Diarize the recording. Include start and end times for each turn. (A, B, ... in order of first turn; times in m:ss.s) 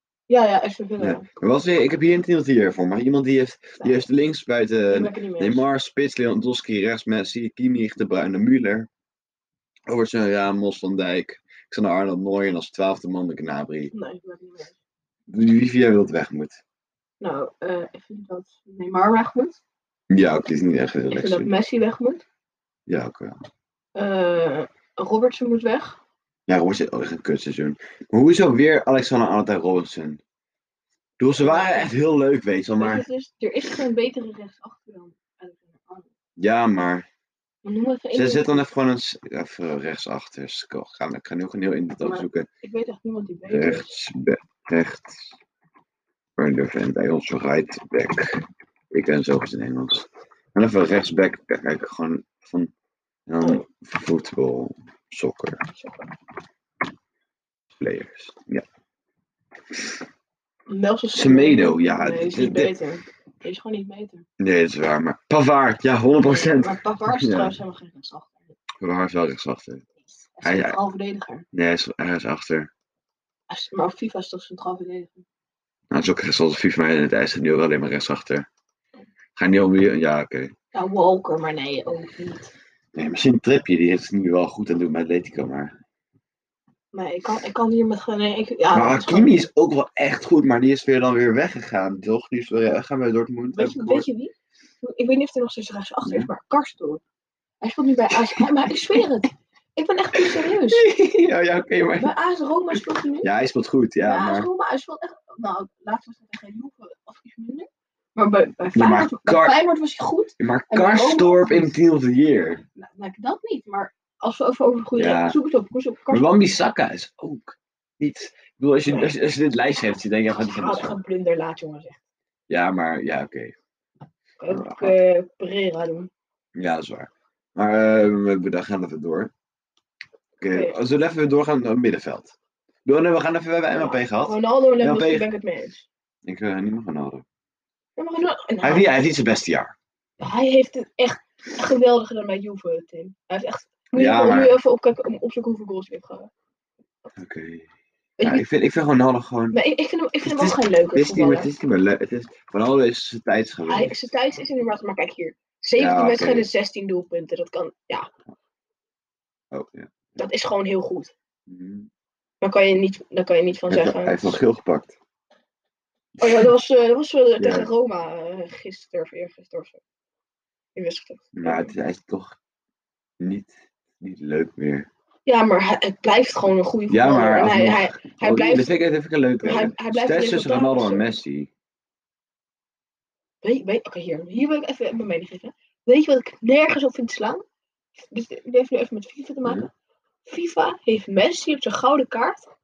0:00.3-0:01.3 A
0:01.0-0:08.9 B
0:04.9-0:05.6 A
0:09.9-0:13.9 B
0:13.9-0:14.8 A
0:15.3-0:16.6 B
0:17.2-0:19.6 A
0:20.1-0:21.5 B
0:21.1-0:22.2 A
0:22.9-0:23.4 B
0:23.9-0:26.0 A
0:26.5-0:30.2 B
0:31.2-0:33.0 B
0:31.4-0:31.9 A
0:32.8-0:36.1 A
0:36.4-0:37.0 B
0:37.6-0:38.6 A
0:38.1-0:42.5 B
0:42.0-0:43.9 A
0:43.5-0:45.3 B
0:46.4-0:52.7 B
0:53.3-0:55.6 B
0:55.7-0:56.1 A
0:57.7-0:58.6 B
1:00.7-1:04.2 A
1:01.1-1:02.7 B
1:04.4-1:07.5 B
1:06.2-1:08.5 A
1:08.8-1:09.8 B
1:10.1-1:11.4 A
1:10.4-1:10.8 B
1:11.5-1:12.7 B
1:13.5-1:15.2 A
1:15.9-1:18.5 B
1:19.4-1:20.5 B
1:20.7-1:22.5 A
1:22.9-1:25.7 B
1:26.9-1:29.4 A
1:28.7-1:34.1 B
1:33.5-1:37.0 A
1:36.0-1:36.3 B
1:37.6-1:40.9 A
1:38.1-1:38.4 B
1:40.2-1:42.1 B
1:42.0-1:43.3 A
1:42.7-1:44.5 B
1:44.0-1:51.7 A
1:48.7-1:49.6 B
1:50.4-1:52.6 B
1:52.8-1:56.3 A
1:55.0-1:55.4 B
1:56.1-2:01.0 B
2:00.3-2:02.0 A
2:02.5-2:03.5 B
2:04.4-2:06.1 A
2:04.5-2:04.9 B
2:06.5-2:09.3 B
2:10.4-2:15.3 B
2:13.8-2:15.8 A
2:16.2-2:17.2 B
2:18.0-2:19.0 A
2:18.6-2:19.7 B
2:20.2-2:26.3 A
2:23.9-2:24.6 B
2:27.2-2:27.7 B
2:28.2-2:28.4 A
2:28.2-2:29.6 B
2:29.5-2:31.5 A
2:30.2-2:33.9 B
2:33.6-2:38.1 A
2:35.8-2:36.5 B
2:39.5-2:40.1 B
2:40.2-2:41.1 A
2:41.5-2:41.9 B
2:42.4-2:44.4 A
2:43.7-2:44.9 B
2:46.2-2:46.5 B
2:46.2-2:49.8 A
2:47.4-2:47.7 B
2:50.8-2:51.7 A
2:51.3-2:52.4 B
2:53.2-2:54.9 B
2:55.2-2:58.7 A
2:56.9-3:01.5 B
2:59.4-3:01.1 A
3:03.4-3:07.4 A
3:08.1-3:09.7 A
3:10.2-3:12.5 A